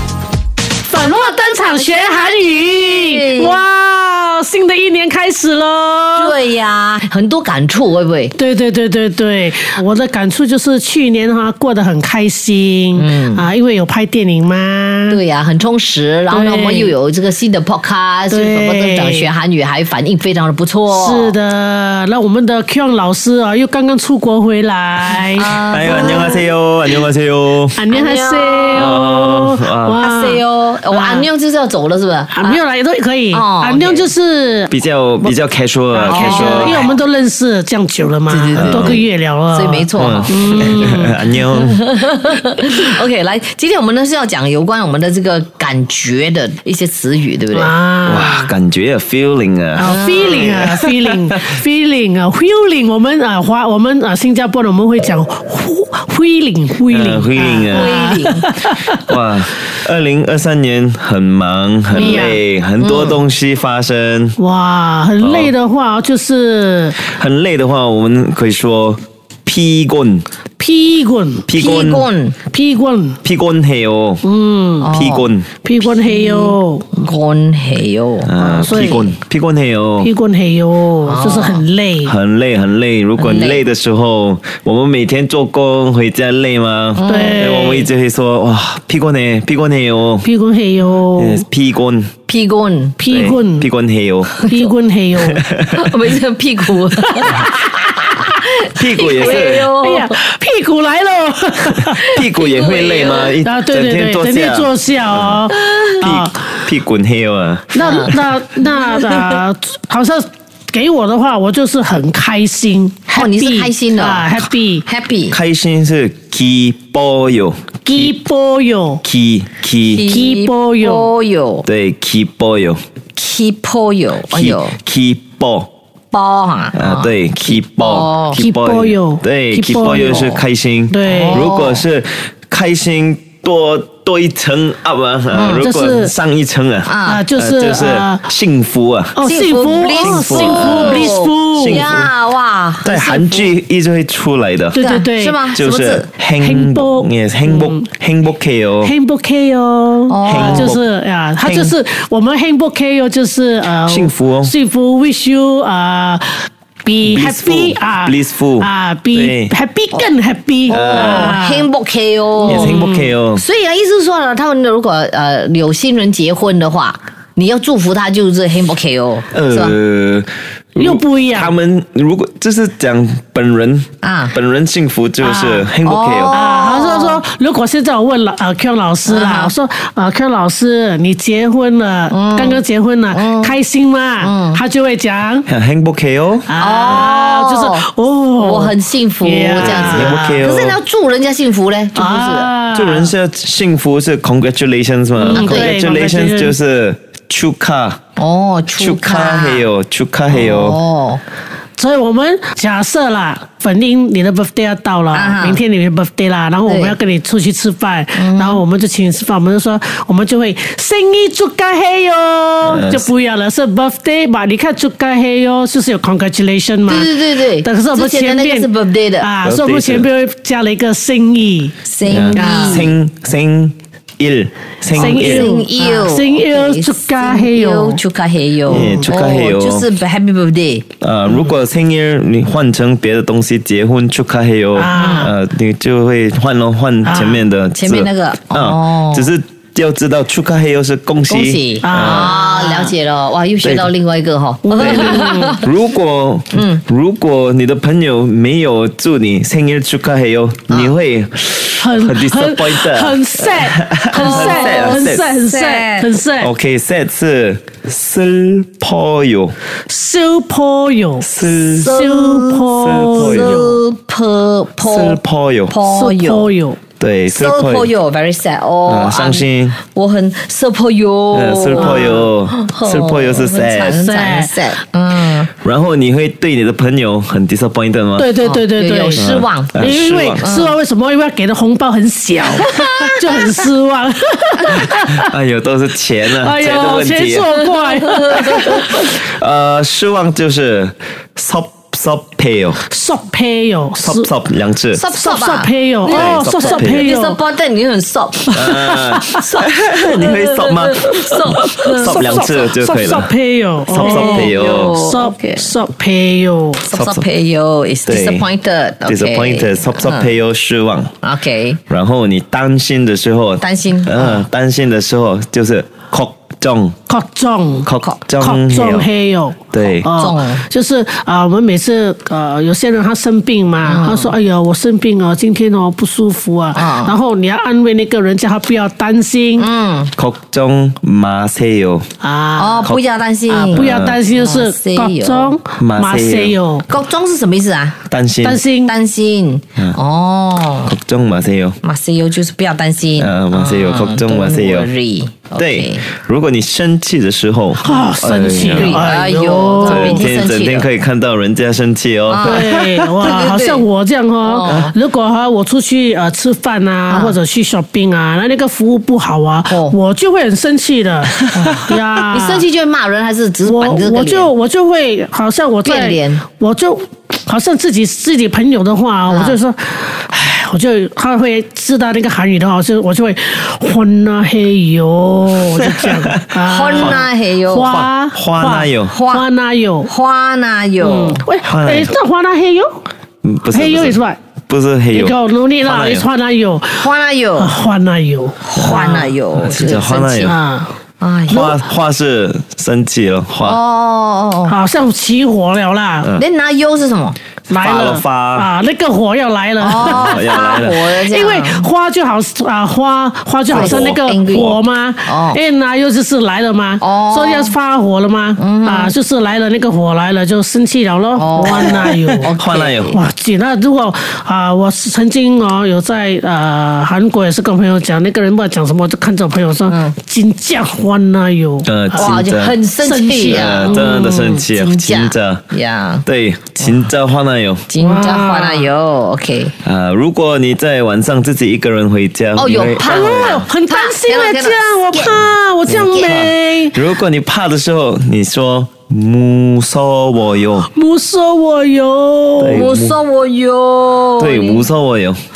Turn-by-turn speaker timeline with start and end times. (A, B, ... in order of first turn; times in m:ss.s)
0:00.9-0:06.4 A
0:01.7-0:03.6 B
0:06.2-0:08.3 B
0:08.4-0:15.2 A
0:13.0-0:13.5 B
0:15.1-0:21.4 B
0:16.3-0:16.9 A
0:18.3-0:19.3 A
0:20.9-0:26.3 A
0:25.3-0:26.5 B
0:25.7-0:27.8 C
0:27.8-0:31.3 A
0:27.9-0:29.0 B
0:28.7-0:30.0 C
0:30.0-0:32.6 B
0:32.3-0:35.3 A
0:33.3-0:34.1 B
0:34.7-0:36.9 C
0:35.9-0:41.2 A
0:36.1-0:37.0 B
0:38.3-0:47.7 B
0:38.6-0:39.0 C
0:40.0-0:41.8 C
0:47.5-0:48.5 A
0:48.1-0:51.4 C
0:49.8-0:59.0 A
0:49.8-0:50.6 B
0:56.9-0:58.0 C
0:57.7-0:58.5 B
0:59.1-1:04.4 C
1:01.9-1:02.4 A
1:02.0-1:03.2 B
1:04.4-1:07.0 A
1:05.2-1:05.5 C
1:07.0-1:10.2 C
1:10.6-1:11.5 A
1:11.5-1:12.1 C
1:11.6-1:12.4 B
1:12.5-1:13.2 A
1:13.2-1:14.2 C
1:14.2-1:14.9 A
1:14.8-1:15.3 B
1:14.9-1:15.5 C
1:15.6-1:16.9 A
1:16.0-1:18.3 B
1:18.2-1:20.1 C
1:18.4-1:19.1 A
1:20.0-1:22.2 A
1:21.1-1:21.6 B
1:22.1-1:30.3 C
1:23.2-1:23.6 B
1:27.0-1:27.6 B
1:27.0-1:27.9 A
1:30.2-1:31.4 A
1:31.2-1:32.1 C
1:32.3-1:33.0 B
1:33.0-1:33.7 A
1:33.1-1:34.4 C
1:34.5-1:35.4 A
1:35.2-1:35.9 C
1:35.7-1:40.2 B
1:38.8-1:39.7 C
1:39.1-1:42.0 A
1:41.9-1:43.4 B
1:42.1-1:45.5 C
1:42.9-1:46.5 A
1:45.5-1:46.0 B
1:46.0-1:48.1 C
1:47.7-1:54.8 A
1:47.8-1:48.1 B
1:48.7-1:49.4 B
1:53.1-1:55.4 B
1:55.3-1:58.1 C
1:57.9-1:59.0 A
1:59.0-2:00.1 C
1:59.9-2:01.7 B
2:00.1-2:01.1 A
2:01.7-2:02.8 C
2:03.2-2:04.8 B
2:04.3-2:05.7 C
2:06.1-2:08.4 B
2:06.7-2:22.1 C
2:08.4-2:10.3 A
2:09.7-2:10.4 B
2:10.9-2:11.5 A
2:11.0-2:11.8 B
2:15.3-2:15.7 B
2:15.5-2:16.1 A
2:16.8-2:17.2 B
2:17.1-2:18.3 A
2:19.2-2:21.9 A
2:19.2-2:23.5 B
2:22.8-2:24.8 C
2:24.7-2:25.4 A
2:24.8-2:26.1 B
2:25.5-2:28.9 C
2:26.4-2:27.9 A
2:28.8-2:41.7 A
2:30.1-2:30.7 B
2:30.2-2:30.8 C
2:31.4-2:31.7 B
2:33.8-2:34.5 C
2:37.0-2:39.5 C
2:40.7-2:41.4 C
2:40.7-2:49.8 B
2:42.4-2:43.4 C
2:42.4-2:43.0 A
2:49.3-2:56.4 C
2:50.8-2:51.5 A
2:54.0-2:54.4 B
2:55.2-2:55.7 A
2:55.8-2:57.2 B
2:56.3-3:05.5 A
2:59.1-2:59.5 B
3:02.1-3:03.5 B
3:04.2-3:04.6 B
3:05.5-3:06.5 C
3:06.5-3:10.4 A
3:06.6-3:07.8 B
3:08.4-3:12.5 B
3:09.6-3:10.8 C
3:12.0-3:13.1 A
3:12.7-3:18.0 C
3:15.2-3:16.6 A
3:15.3-3:15.8 B
3:18.2-3:19.7 B
3:18.8-3:20.8 C
3:20.3-3:21.2 B
3:21.8-3:38.7 A
3:25.1-3:25.6 B
3:26.7-3:27.0 B
3:28.2-3:28.6 B
3:32.6-3:33.1 C
3:36.9-3:39.3 B
3:39.2-3:41.7 A
3:39.4-3:40.1 C
3:41.8-3:42.9 B
3:42.1-3:45.5 C
3:42.3-3:42.9 A
3:44.9-3:48.0 A
3:45.0-3:50.8 B
3:48.7-3:49.9 C
3:48.7-3:49.1 A
3:51.0-4:02.4 C
3:54.8-3:55.3 A
3:54.9-3:55.3 B
3:57.0-3:57.5 A
3:57.7-3:59.3 B
4:01.3-4:05.6 B
4:01.8-4:02.9 A
4:03.6-4:03.9 C
4:04.6-4:05.6 A
4:04.8-4:15.3 C
4:06.5-4:06.8 B
4:11.8-4:16.5 A
4:14.2-4:16.1 B
4:16.4-4:19.6 C
4:19.9-4:23.8 A
4:21.2-4:21.9 C
4:21.7-4:25.2 B
4:22.7-4:23.6 C
4:24.8-4:25.8 C
4:25.7-4:26.5 B
4:25.8-4:26.8 A
4:27.0-4:27.9 C
4:27.3-4:35.5 B
4:28.9-4:29.8 C
4:31.3-4:34.0 C
4:31.8-4:32.2 A
4:33.8-4:34.5 A
4:35.6-4:38.3 C
4:38.2-4:45.3 A
4:38.4-4:40.8 B
4:39.2-4:40.5 C
4:42.6-4:43.6 B
4:45.2-4:47.5 C
4:46.4-4:49.0 A
4:47.5-4:49.0 B
4:48.7-4:52.8 C
4:52.9-4:54.3 A
4:54.0-4:55.0 C
4:54.9-5:02.4 B
4:55.1-4:57.4 A
4:56.1-4:57.1 C
4:58.5-5:03.3 C
4:58.5-4:59.3 A
5:01.5-5:06.8 A
5:03.9-5:05.0 C
5:03.9-5:05.7 B
5:06.8-5:10.3 B
5:06.9-5:07.3 C
5:08.1-5:08.5 C
5:09.1-5:11.1 C
5:11.2-5:11.8 B
5:11.9-5:17.0 C
5:13.6-5:14.5 B
5:17.1-5:17.9 A
5:17.8-5:19.1 C
5:18.4-5:29.7 A
5:19.7-5:20.1 C
5:20.1-5:20.7 B
5:23.8-5:24.3 B
5:26.7-5:27.2 B
5:29.6-5:30.1 B
5:30.2-5:32.1 C
5:32.2-5:32.9 A
5:32.6-5:35.6 B
5:33.5-5:36.9 A
5:33.7-5:34.2 C
5:35.8-5:36.6 C
5:36.9-5:38.0 B
5:38.1-5:38.6 C
5:38.4-5:38.9 A
5:38.8-5:41.0 B
5:40.9-5:41.8 C
5:41.8-5:46.0 B
5:43.2-5:44.9 C
5:45.6-5:49.1 C
5:47.8-5:50.3 A
5:48.6-5:50.9 B
5:49.8-5:53.3 C
5:52.3-5:53.8 B
5:52.4-6:02.7 A
5:54.4-5:55.0 B
5:57.1-5:57.4 B
5:59.7-6:00.0 B
6:02.3-6:04.5 B
6:03.7-6:20.1 A
6:05.8-6:06.4 B
6:09.3-6:09.6 B
6:15.8-6:16.3 C
6:16.6-6:18.0 B
6:16.9-6:17.2 C
6:17.8-6:19.2 C
6:19.1-6:19.5 B
6:20.0-6:21.4 B
6:21.0-6:23.0 A
6:21.6-6:22.1 C
6:23.4-6:26.3 C
6:23.7-6:24.4 A
6:25.1-6:28.6 A
6:26.9-6:27.7 B
6:28.6-6:30.6 B
6:28.8-6:30.6 C
6:30.4-6:30.9 A
6:31.2-6:31.8 B
6:31.5-6:33.8 C
6:33.6-6:34.8 B
6:34.7-6:36.3 A
6:36.4-6:37.4 B
6:37.7-6:52.5 A
6:37.7-6:38.7 C
6:39.8-6:41.9 B
6:40.0-6:41.0 C
6:43.7-6:45.6 B
6:43.7-6:44.8 C
6:47.0-6:47.8 B
6:48.6-6:49.1 B
6:51.4-6:53.2 B
6:51.7-6:53.2 C
6:53.1-7:02.4 A
6:59.9-7:00.2 B
7:01.8-7:02.8 C
7:02.1-7:06.2 B
7:03.0-7:04.6 A
7:03.5-7:05.6 C
7:06.3-7:07.9 C
7:07.9-7:09.7 B
7:08.0-7:08.9 A
7:09.8-7:13.6 C
7:12.6-7:15.5 B
7:13.0-7:17.0 A
7:15.9-7:20.9 C
7:16.1-7:16.4 B
7:20.9-7:22.9 A
7:22.6-7:23.2 C
7:22.7-7:24.9 B
7:24.4-7:25.4 C